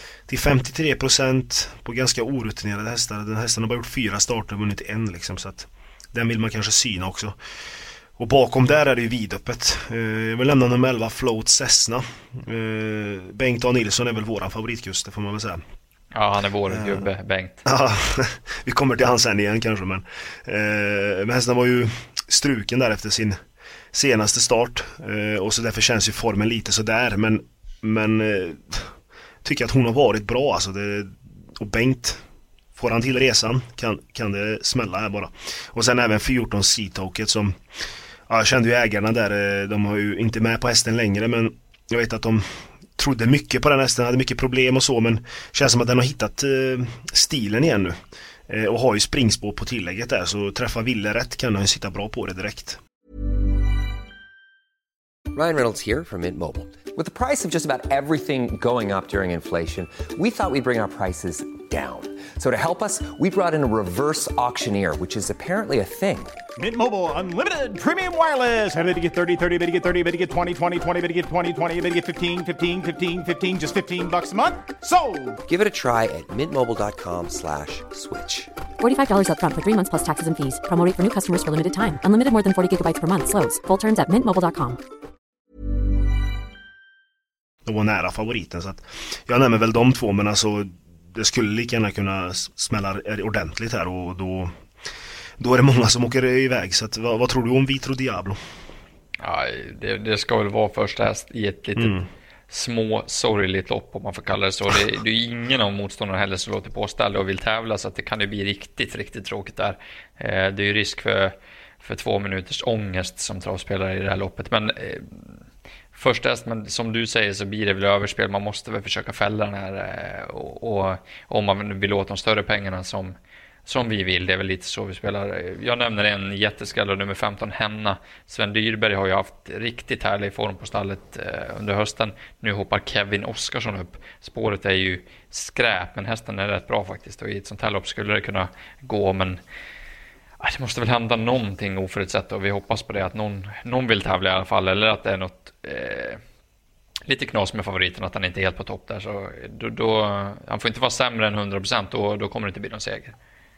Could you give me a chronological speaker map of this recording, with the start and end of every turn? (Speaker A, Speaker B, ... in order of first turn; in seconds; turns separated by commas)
Speaker A: 0.3-7.3, Speaker A: 8.2-15.6, Speaker B: 16.1-17.6, Speaker A: 16.7-17.0, Speaker A: 17.6-23.4, Speaker A: 23.9-28.9, Speaker A: 29.4-32.2, Speaker A: 32.7-37.6, Speaker A: 38.3-48.0, Speaker A: 48.5-52.8, Speaker C: 55.3-66.3, Speaker D: 66.5-75.4, Speaker C: 75.5-78.5, Speaker E: 78.8-84.8, Speaker A: 87.6-94.5, Speaker A: 95.4-98.4, Speaker B: 99.2-102.0, Speaker A: 101.8-102.0, Speaker B: 102.5-115.3, Speaker B: 115.9-123.1, Speaker B: 123.7-139.4, Speaker B: 140.4-146.2, Speaker B: 147.1-153.1